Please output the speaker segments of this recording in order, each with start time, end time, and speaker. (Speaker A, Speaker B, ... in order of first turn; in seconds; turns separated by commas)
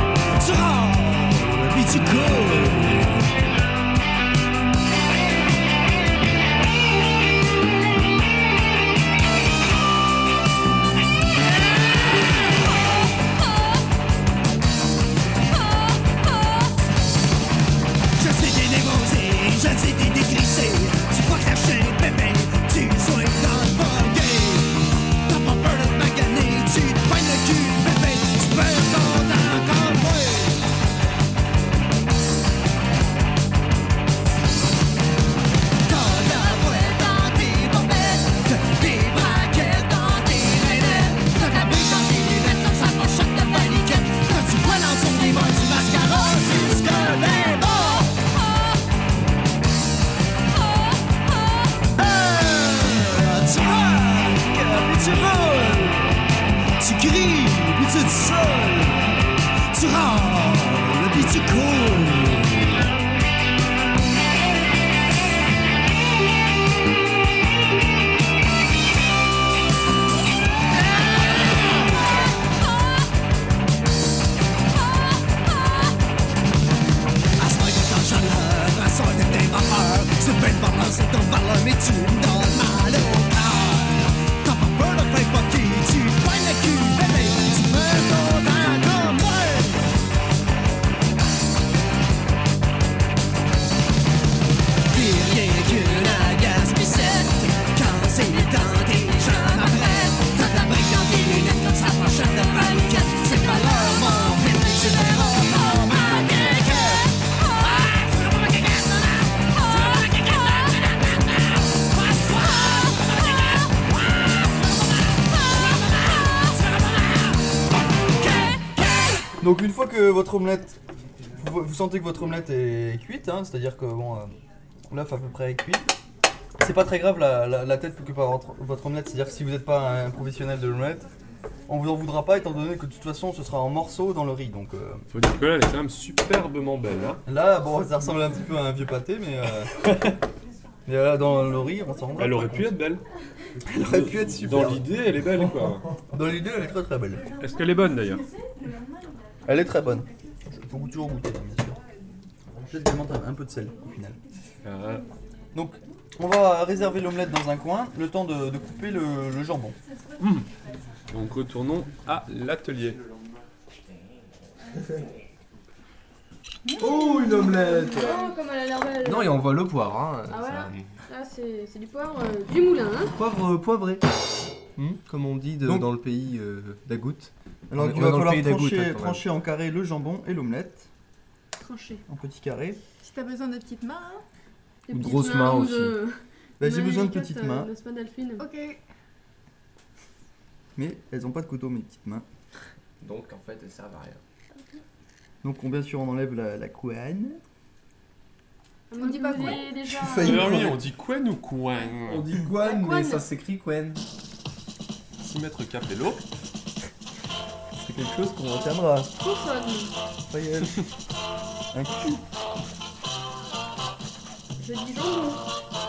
Speaker A: 0.4-3.2, Speaker A: 18.1-30.6, Speaker A: 35.9-48.2, Speaker A: 52.0-56.1, Speaker A: 56.8-62.9, Speaker A: 77.4-89.9, Speaker A: 94.9-117.6, Speaker A: 118.2-119.1, Speaker B: 119.4-120.8, Speaker B: 121.3-124.3, Speaker B: 124.9-125.9, Speaker B: 126.6-131.1, Speaker B: 131.7-135.0, Speaker C: 135.1-137.2, Speaker B: 137.2-139.9, Speaker B: 140.8-142.8, Speaker C: 142.2-143.0, Speaker D: 143.6-144.0, Speaker B: 143.7-144.8, Speaker C: 143.7-145.9, Speaker D: 145.2-146.1, Speaker B: 146.1-147.2, Speaker C: 147.4-148.3, Speaker B: 149.4-151.8, Speaker B: 152.7-154.2, Speaker C: 154.6-155.0, Speaker B: 155.5-159.8, Speaker C: 160.2-160.5, Speaker C: 161.1-163.0, Speaker E: 166.7-167.3, Speaker D: 166.8-168.3, Speaker F: 166.8-169.4, Speaker D: 169.0-170.8, Speaker F: 170.3-173.1, Speaker D: 173.1-174.0, Speaker B: 173.4-174.0, Speaker D: 174.8-179.2, Speaker B: 175.6-175.9, Speaker B: 177.7-180.9, Speaker F: 181.6-182.0, Speaker B: 182.1-182.8, Speaker E: 183.0-184.2, Speaker F: 184.9-188.5, Speaker D: 184.9-185.9, Speaker B: 186.6-187.7, Speaker E: 188.4-188.8, Speaker B: 190.8-192.2, Speaker D: 193.0-194.2, Speaker B: 195.4-197.4, Speaker F: 198.9-200.6, Speaker E: 198.9-199.7, Speaker B: 199.9-200.8, Speaker C: 200.2-202.2, Speaker D: 202.1-204.0, Speaker F: 202.6-203.2, Speaker C: 205.2-206.2, Speaker B: 207.7-209.1, Speaker F: 209.2-209.9, Speaker B: 210.3-210.8, Speaker B: 211.7-212.2, Speaker F: 214.6-215.5